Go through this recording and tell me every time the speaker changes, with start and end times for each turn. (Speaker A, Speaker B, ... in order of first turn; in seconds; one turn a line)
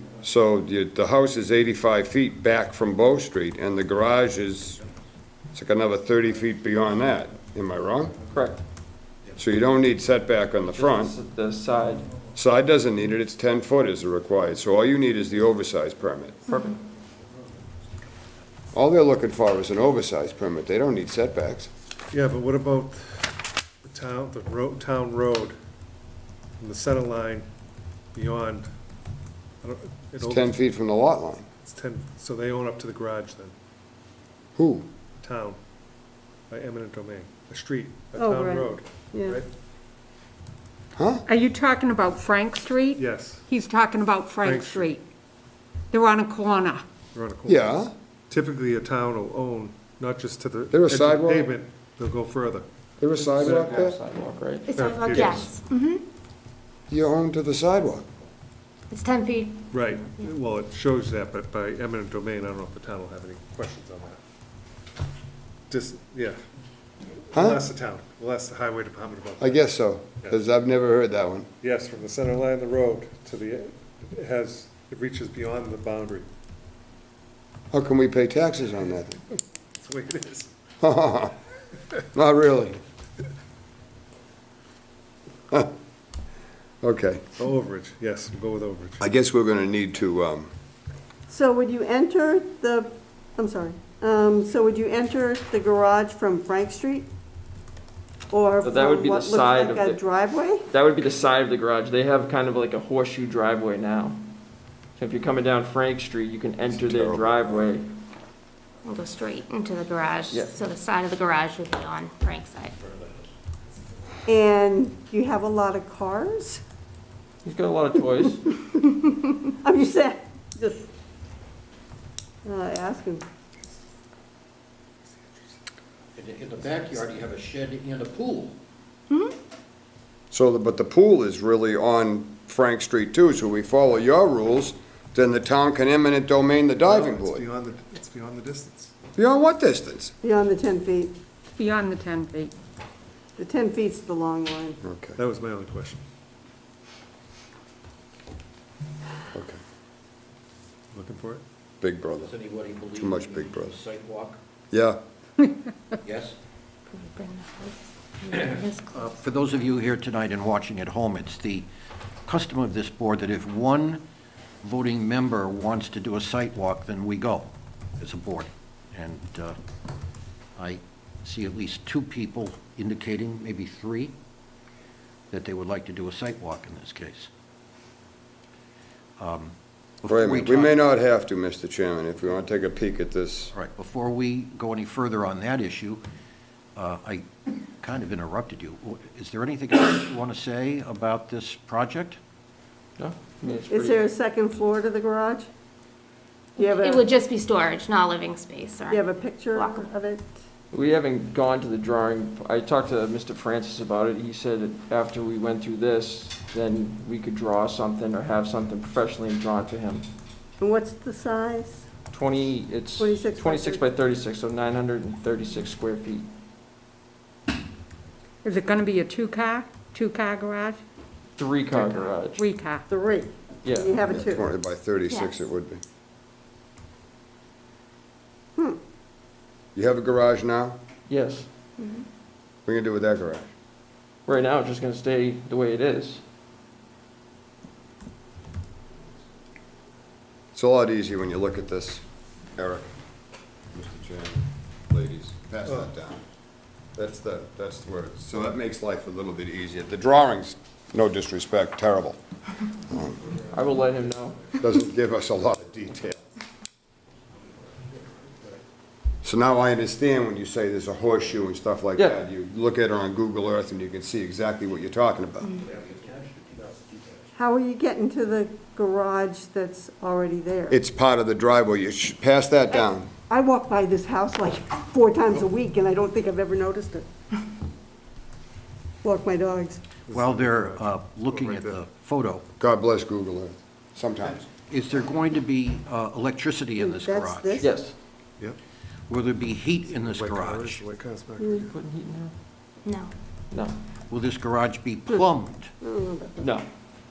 Speaker A: 0.2-4.8
Speaker A: 5.5-8.2
Speaker B: 8.3-8.6
Speaker A: 9.3-11.1
Speaker B: 10.7-12.1
Speaker A: 12.3-16.4
Speaker B: 16.5-16.8
Speaker A: 18.7-21.7
Speaker C: 22.1-25.6
Speaker C: 26.6-27.5
Speaker C: 28.1-28.7
Speaker C: 29.6-30.6
Speaker A: 30.2-31.4
Speaker C: 31.6-33.5
Speaker A: 34.5-34.9
Speaker C: 35.2-35.6
Speaker C: 36.5-39.5
Speaker D: 38.2-39.4
Speaker A: 41.0-41.2
Speaker E: 41.3-45.0
Speaker C: 43.0-43.5
Speaker C: 44.4-44.9
Speaker E: 45.9-46.8
Speaker C: 47.1-52.7
Speaker A: 47.5-47.9
Speaker A: 50.7-51.5
Speaker A: 53.0-54.0
Speaker B: 53.2-54.8
Speaker C: 53.3-53.8
Speaker F: 54.7-56.0
Speaker C: 54.7-55.5
Speaker A: 56.9-58.0
Speaker F: 58.9-60.2
Speaker C: 59.7-64.2
Speaker C: 65.7-66.4
Speaker C: 67.3-70.4
Speaker A: 67.3-67.6
Speaker A: 69.4-71.5
Speaker C: 71.6-76.3
Speaker A: 77.7-79.2
Speaker C: 79.8-80.5
Speaker A: 80.8-81.3
Speaker A: 82.1-82.8
Speaker A: 86.8-87.2
Speaker C: 87.4-89.0
Speaker A: 89.0-90.5
Speaker D: 91.3-97.1
Speaker D: 98.3-100.7
Speaker B: 98.6-100.0
Speaker B: 100.7-104.2
Speaker B: 105.0-107.8
Speaker A: 106.7-107.6
Speaker F: 108.8-112.7
Speaker B: 110.3-110.6
Speaker D: 114.3-116.6
Speaker B: 117.4-118.6
Speaker D: 119.6-120.9
Speaker D: 122.5-123.2
Speaker G: 126.2-128.6
Speaker A: 130.3-137.4
Speaker C: 136.8-138.9
Speaker A: 139.2-140.2
Speaker D: 140.2-141.1
Speaker E: 141.6-142.5
Speaker D: 143.4-144.8
Speaker A: 144.8-145.2
Speaker C: 145.2-146.0
Speaker A: 149.3-149.6
Speaker C: 150.9-151.4
Speaker A: 151.8-152.3
Speaker G: 152.2-154.4
Speaker A: 152.9-153.8
Speaker A: 154.7-155.0
Speaker G: 156.0-156.4
Speaker F: 156.9-159.0
Speaker G: 158.3-161.7
Speaker G: 162.2-164.0
Speaker G: 164.6-169.6
Speaker G: 170.6-174.2
Speaker G: 175.3-177.3
Speaker G: 179.2-180.8
Speaker A: 180.1-183.5
Speaker G: 183.5-186.1
Speaker G: 186.8-192.2
Speaker B: 193.0-194.0
Speaker D: 193.7-195.5
Speaker D: 196.6-197.2
Speaker F: 196.6-199.9
Speaker D: 198.9-200.3
Speaker B: 200.7-210.1
Speaker D: 210.6-211.8
Speaker B: 212.1-216.3
Speaker D: 213.0-213.9
Speaker E: 218.4-220.8
Speaker B: 221.4-222.4
Speaker E: 222.3-222.8
Speaker D: 222.9-224.5
Speaker B: 223.6-224.0
Speaker A: 224.1-225.8
Speaker F: 225.1-225.4
Speaker A: 229.8-230.8
Speaker B: 231.1-231.5
Speaker F: 231.8-232.1
Speaker A: 232.7-233.5
Speaker B: 234.3-236.2
Speaker A: 240.6-242.0
Speaker A: 242.6-242.9
Speaker A: 243.7-246.2
Speaker A: 247.0-252.2
Speaker A: 252.9-253.2
Speaker B: 253.5-254.5
Speaker A: 254.5-256.2
Speaker A: 259.2-265.6
Speaker G: 265.6-267.2
Speaker D: 267.3-270.8
Speaker A: 270.7-273.1
Speaker D: 273.3-277.1
Speaker D: 279.0-279.8
Speaker C: 280.1-281.8
Speaker G: 280.1-282.5
Speaker A: 282.6-284.5
Speaker G: 284.6-287.7
Speaker D: 286.8-287.8
Speaker B: 287.6-287.9
Speaker G: 289.1-290.8
Speaker C: 289.9-291.7
Speaker D: 291.4-291.6
Speaker B: 291.6-292.3
Speaker F: 292.8-293.1
Speaker B: 293.5-293.8
Speaker G: 294.1-295.7
Speaker D: 295.8-296.6